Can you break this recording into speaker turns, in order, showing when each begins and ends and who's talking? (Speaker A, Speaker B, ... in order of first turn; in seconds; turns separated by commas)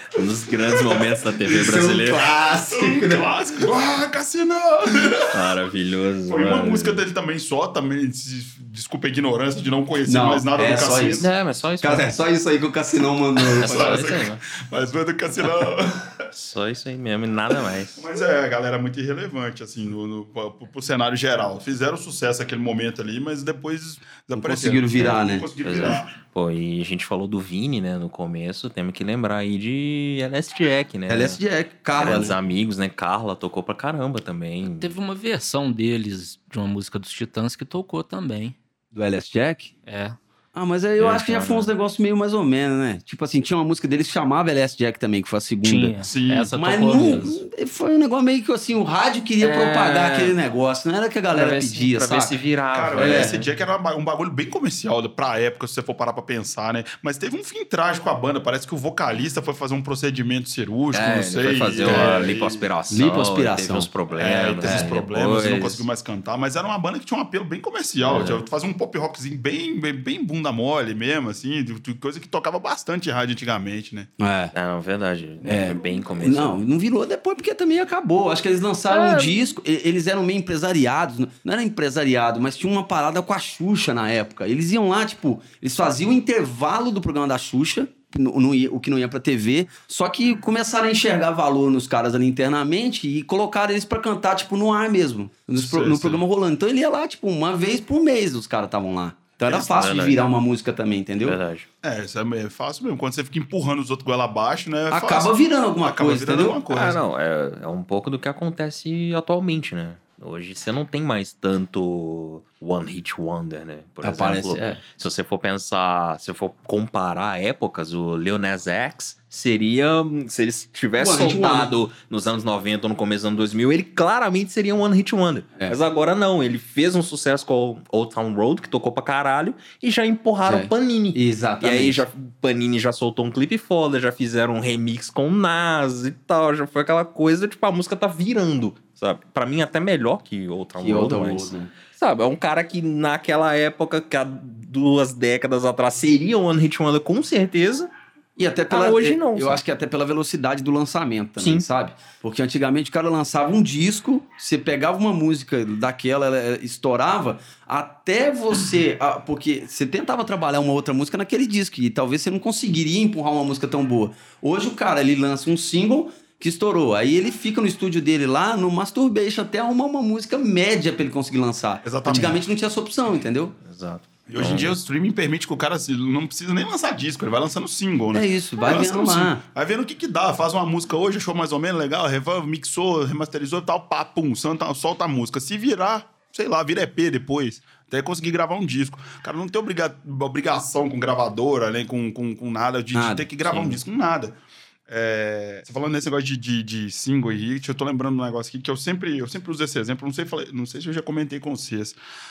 Speaker A: 0.1-2.2, Speaker B: 1.4-3.3, Speaker C: 2.7-5.4, Speaker A: 5.3-7.0, Speaker C: 6.3-11.3, Speaker B: 10.1-11.3, Speaker A: 11.2-12.2, Speaker B: 11.8-14.1, Speaker A: 13.6-14.4, Speaker C: 13.6-16.2, Speaker A: 16.3-18.0, Speaker C: 18.0-26.1, Speaker B: 24.3-25.5, Speaker A: 25.0-31.4, Speaker B: 31.1-32.4, Speaker A: 31.9-34.9, Speaker D: 34.7-38.6, Speaker B: 38.9-39.7, Speaker D: 39.9-40.2, Speaker B: 40.5-45.9, Speaker A: 41.0-41.7, Speaker D: 45.6-47.4, Speaker C: 46.0-46.6, Speaker B: 46.6-52.4, Speaker A: 49.4-50.4, Speaker A: 51.3-53.4, Speaker C: 52.7-62.7, Speaker B: 53.0-53.4, Speaker A: 60.9-65.8, Speaker B: 61.9-62.1, Speaker B: 62.9-63.9, Speaker C: 64.1-74.1, Speaker A: 68.0-68.4, Speaker B: 74.2-74.5, Speaker A: 74.5-76.6, Speaker B: 75.4-101.4, Speaker A: 78.9-79.5, Speaker C: 95.6-96.2, Speaker A: 99.5-100.2, Speaker A: 101.2-101.7, Speaker C: 101.8-107.0, Speaker B: 104.9-106.6, Speaker A: 106.7-147.9, Speaker B: 114.0-114.8, Speaker B: 121.0-121.8, Speaker B: 130.4-132.1, Speaker B: 140.8-141.7, Speaker B: 148.4-173.6, Speaker A: 148.7-149.6, Speaker A: 151.4-151.7, Speaker C: 171.8-172.4, Speaker A: 173.6-174.8, Speaker C: 174.3-194.3, Speaker B: 178.1-179.4, Speaker B: 192.9-193.6, Speaker C: 194.9-202.0